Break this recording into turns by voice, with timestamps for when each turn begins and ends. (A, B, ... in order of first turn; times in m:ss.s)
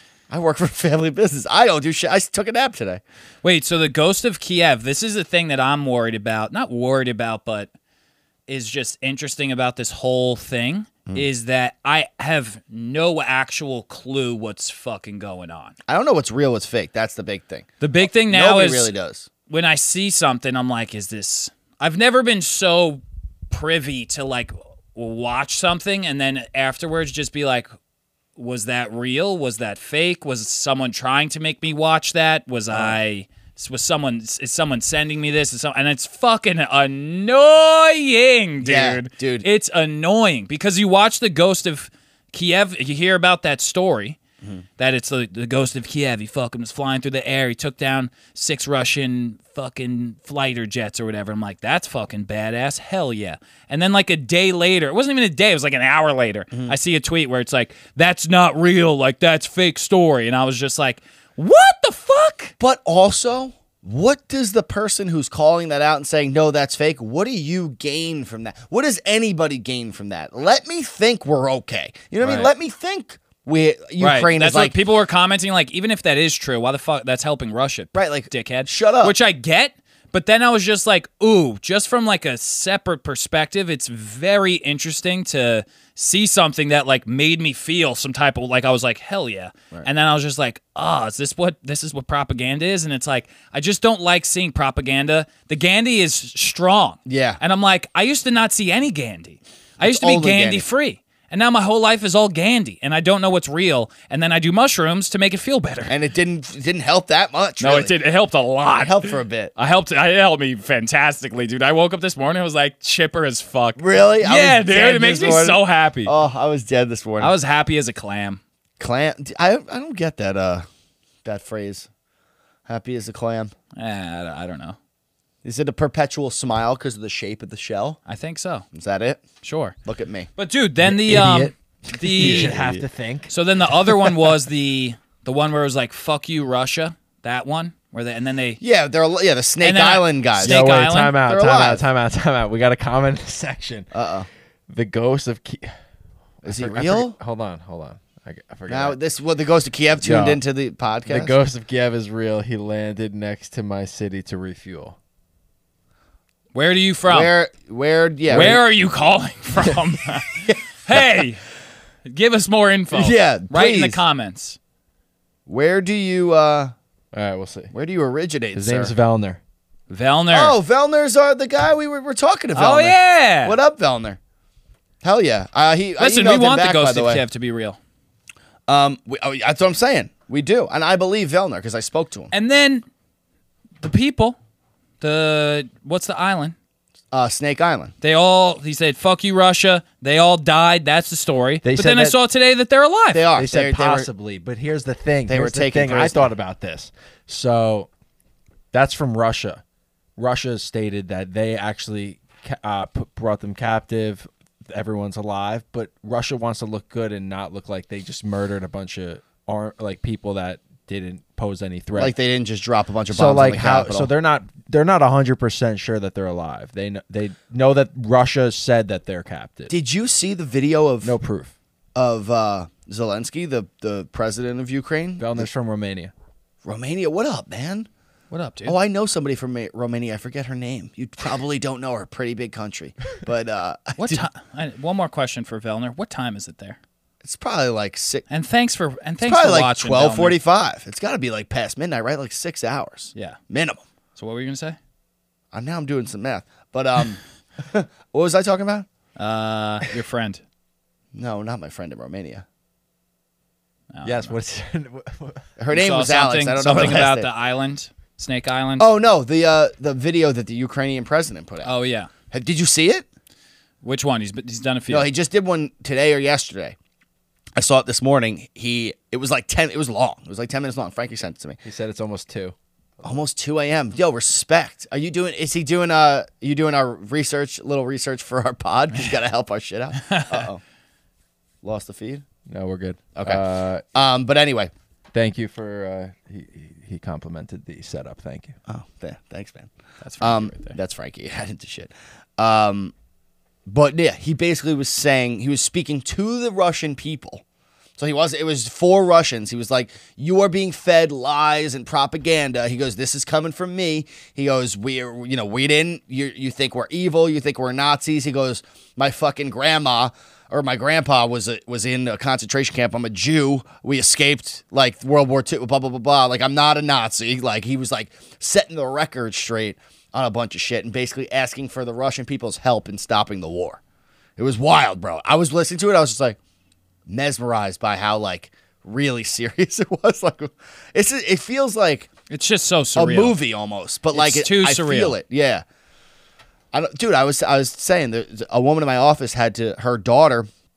0:00.3-0:03.0 A
0:03.4-0:07.7 B
0:08.5-0:15.7 B
0:15.9-0:17.7 A
0:17.8-0:18.9 B
0:18.2-0:19.3 A
0:19.5-0:27.7 B
0:28.4-0:44.2 B
0:32.7-0:33.0 A
0:38.6-0:39.4 A
0:44.8-1:02.5 B
1:02.6-1:14.7 A
1:12.2-1:12.5 B
1:14.0-1:45.9 B
1:17.9-1:19.1 A
1:37.0-1:37.4 A
1:39.8-1:40.7 A
1:45.9-1:47.9 A
1:47.6-1:56.1 B
1:48.8-1:49.5 A
1:53.8-1:57.3 A
1:57.2-1:58.4 B
1:58.8-2:00.6 A
2:01.2-2:01.9 A
2:02.7-2:03.5 A
2:03.7-2:04.8 B
2:05.4-2:08.0 A
2:08.1-2:08.6 B
2:08.7-2:09.2 A
2:09.4-2:09.7 B
2:09.8-2:10.3 A
2:10.4-2:12.7 B
2:10.8-2:13.3 C
2:12.1-2:12.8 A
2:13.3-2:18.6 B
2:18.6-2:20.6 A
2:19.6-2:21.2 B
2:20.4-2:23.9 C
2:21.2-2:21.8 A
2:23.9-2:24.3 A
2:24.7-2:25.7 C
2:26.4-2:29.0 C
2:26.4-2:27.2 A
2:28.7-2:31.3 A
2:30.0-2:30.4 C
2:31.1-2:35.0 C
2:36.5-2:37.3 B
2:37.0-2:38.6 A
2:38.3-2:41.4 B
2:38.3-2:38.6 C
2:40.5-2:41.2 A
2:42.0-2:44.6 B
2:42.9-2:44.0 A
2:45.5-2:46.7 A
2:47.1-2:47.7 C
2:47.7-2:48.9 A
2:48.5-2:49.4 C
2:49.9-2:50.6 B
2:50.3-2:54.2 A
2:52.5-2:53.6 B
2:55.0-2:57.2 A
2:56.0-2:57.8 B
2:58.7-3:02.3 A
3:02.3-3:02.8 B
3:03.8-3:04.4 B
3:05.0-3:06.5 B
3:07.1-3:07.9 A
3:08.0-3:13.3 B
3:11.6-3:12.2 C
3:13.1-3:14.1 A
3:13.3-3:17.9 C
3:15.3-3:16.3 A
3:18.7-3:19.6 C
3:20.2-3:32.1 C
3:32.0-3:34.1 A
3:33.1-3:39.7 C
3:39.7-3:41.1 A
3:41.0-3:41.5 C
3:41.9-3:45.5 A
3:45.2-3:46.1 C
3:46.6-3:47.9 A
3:48.3-3:48.8 B
3:48.6-3:54.2 A
3:54.0-3:56.8 B
3:57.2-3:58.2 A
3:58.3-4:00.4 B
3:59.2-4:03.8 A
4:04.2-4:04.8 B
4:05.5-4:08.9 A
4:09.2-4:10.4 B
4:11.1-4:12.4 A
4:13.9-4:14.3 B
4:14.0-4:15.5 C
4:15.6-4:17.3 A
4:15.7-4:18.9 B
4:18.8-4:21.7 A
4:21.6-4:22.1 B
4:22.3-4:23.0 A
4:23.8-4:25.1 B
4:24.9-4:26.8 A
4:27.6-4:31.6 A
4:31.6-4:32.5 C
4:33.0-4:40.6 A
4:40.0-4:40.5 B
4:41.6-4:42.2 A
4:42.5-4:43.8 C
4:43.1-4:43.4 A
4:43.9-4:44.7 A
4:45.1-4:48.6 C
4:48.7-4:52.9 A
4:50.0-4:50.8 B
4:53.6-4:57.4 A
4:58.0-5:23.8 A
5:24.4-5:26.4 A
5:27.1-5:32.1 A
5:32.3-5:33.4 B
5:32.9-5:35.6 A
5:34.1-5:35.2 B
5:36.7-5:40.5 A